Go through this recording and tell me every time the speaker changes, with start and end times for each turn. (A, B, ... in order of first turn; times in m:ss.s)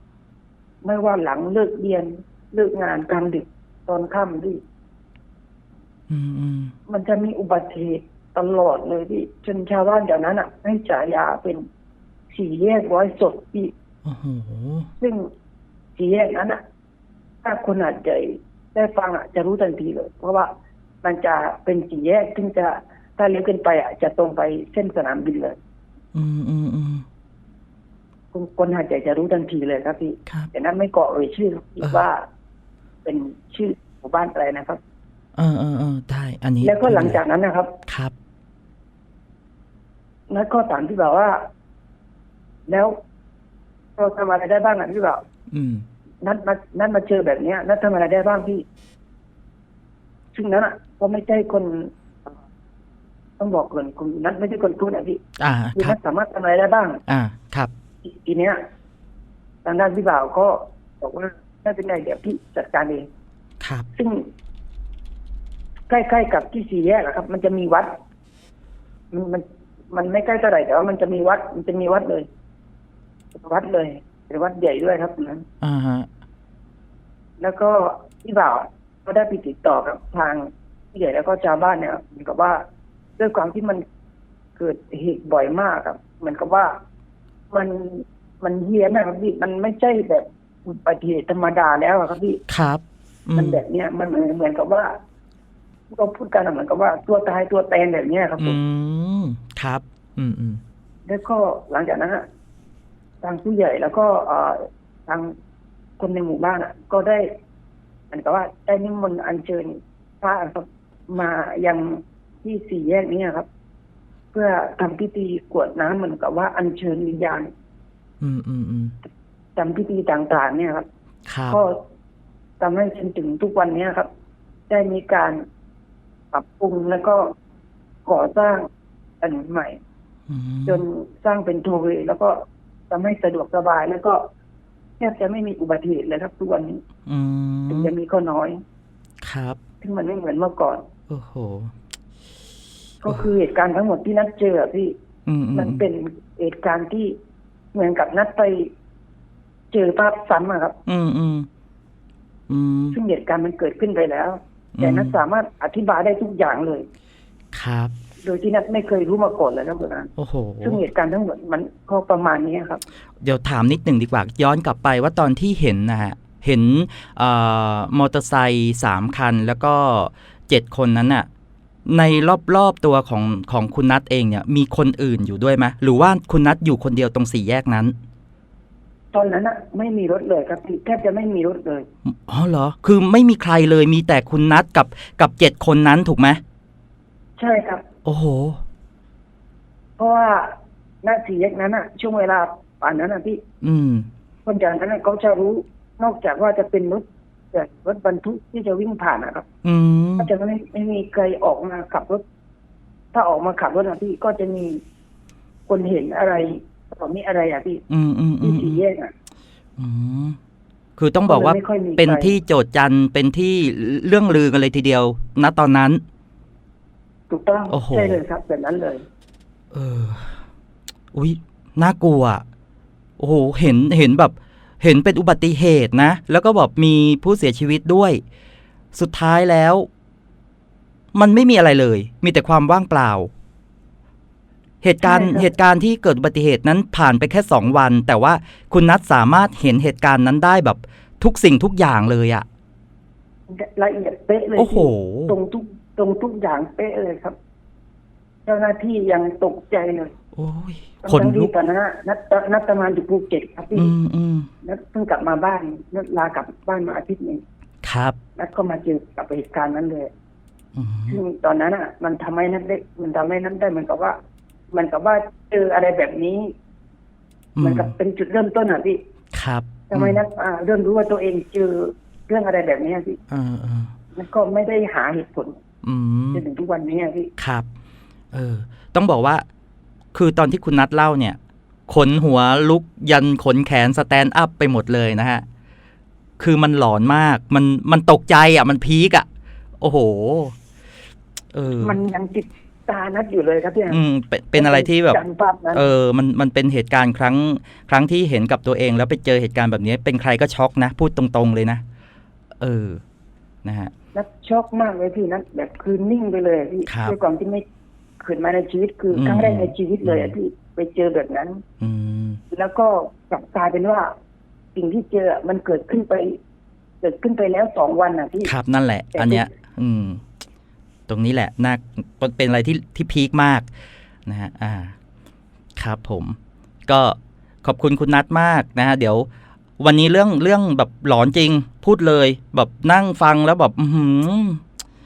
0:00.8-0:04.6 A
0:06.1-0:06.7 B
0:06.9-0:11.6 A
0:12.3-0:13.7 A
0:14.0-0:14.9 B
0:15.0-0:15.3 A
0:16.0-0:16.6 A
0:17.4-0:20.5 A
0:21.0-0:25.6 A
0:26.1-0:27.0 B
0:28.3-0:32.2 A
0:33.0-0:34.8 A
0:35.4-0:37.2 B
0:36.6-0:37.7 A
0:37.9-0:38.1 B
0:40.3-0:41.4 A
0:42.7-0:42.9 A
0:44.0-0:45.2 A
0:45.5-0:45.8 B
0:46.2-0:48.6 A
0:50.3-0:52.3 A
0:53.4-0:55.2 A
0:55.4-0:56.0 B
0:55.8-0:57.0 A
0:57.1-0:57.7 B
0:58.0-0:58.6 A
0:59.6-1:03.1 A
1:03.6-1:03.9 B
1:03.9-1:04.3 A
1:05.9-1:07.9 A
1:09.1-1:12.3 A
1:13.4-1:15.4 A
1:15.6-1:16.1 B
1:17.4-1:22.6 A
1:23.2-1:23.8 A
1:24.6-1:26.7 A
1:27.5-1:32.4 A
1:32.5-1:33.6 B
1:33.4-1:34.9 A
1:35.9-1:38.6 A
1:38.4-1:40.6 B
1:41.1-1:42.2 A
1:43.2-1:45.3 A
1:46.0-1:47.3 A
1:48.1-1:53.5 A
1:54.3-1:57.5 A
1:58.2-1:58.9 B
1:59.6-2:00.8 A
2:01.3-2:01.6 B
2:01.5-2:01.8 A
2:02.6-2:04.1 A
2:04.7-2:05.4 A
2:06.3-2:07.3 A
2:08.0-2:08.7 A
2:09.2-2:09.8 A
2:10.3-2:10.8 B
2:10.7-2:12.4 A
2:12.9-2:14.2 A
2:15.0-2:16.8 A
2:17.0-2:17.9 B
2:17.7-2:18.6 A
2:19.2-2:19.6 B
2:19.8-2:20.8 A
2:21.1-2:21.7 B
2:23.0-2:24.9 A
2:25.3-2:25.8 B
2:25.5-2:27.2 A
2:27.7-2:28.7 A
2:29.7-2:30.8 A
2:30.8-2:31.5 B
2:32.5-2:33.0 B
2:32.9-2:36.9 A
2:34.8-2:35.2 B
2:37.5-2:37.9 B
2:38.2-2:40.1 A
2:40.2-2:40.8 B
2:40.6-2:42.8 A
2:43.2-2:51.3 B
2:51.9-2:57.9 B
2:59.1-3:01.9 A
3:02.0-3:06.4 B
3:07.4-3:07.8 A
3:08.0-3:08.6 B
3:10.0-3:10.5 A
3:11.0-3:13.4 A
3:13.6-3:14.1 B
3:14.4-3:19.4 A
3:19.6-3:20.3 B
3:20.2-3:22.2 A
3:23.1-3:24.8 A
3:25.7-3:27.8 A
3:27.9-3:28.8 B
3:28.4-3:29.1 A
3:29.8-3:30.4 B
3:31.0-3:36.0 B
3:31.2-3:32.3 A
3:37.3-3:39.0 A
3:37.7-3:38.2 B
3:39.7-3:40.3 B
3:41.1-3:42.4 B
3:43.2-3:48.2 B
3:48.9-3:49.9 B
3:51.1-3:53.3 B
3:54.8-4:02.4 B
3:55.0-3:55.5 A
4:03.5-4:07.3 A
4:04.6-4:05.3 B
4:08.4-4:10.1 A
4:10.3-4:11.5 B
4:11.0-4:13.9 A
4:13.7-4:14.5 B
4:14.6-4:17.4 A
4:17.8-4:18.2 B
4:18.4-4:20.1 A
4:20.8-4:21.2 B
4:21.1-4:24.2 A
4:24.7-4:26.5 A
4:27.6-4:27.9 B
4:27.6-4:29.0 A
4:29.3-4:30.2 B
4:29.9-4:33.2 A
4:33.3-4:33.9 B
4:34.1-4:35.6 A
4:35.8-4:36.4 B
4:36.3-4:37.3 A
4:37.4-4:37.6 B
4:38.3-4:39.4 B
4:40.1-4:45.4 B
4:46.4-4:49.2 B
4:49.8-4:50.5 B
4:51.5-4:51.9 B
4:51.8-4:54.0 A
4:53.9-4:55.2 B
4:54.5-4:55.8 A
4:55.7-5:01.8 B
5:02.6-5:03.0 B
5:03.6-5:03.9 B
5:04.1-5:07.6 A
5:06.8-5:07.1 B
5:08.2-5:11.6 A
5:09.1-5:10.3 B
5:11.8-5:12.4 B
5:12.5-5:14.1 A
5:14.7-5:16.4 A
5:17.0-5:18.5 A
5:18.4-5:20.2 B
5:19.1-5:19.5 A
5:21.1-5:23.7 B
5:24.2-5:24.9 B
5:25.8-5:29.3 B
5:29.8-5:34.6 B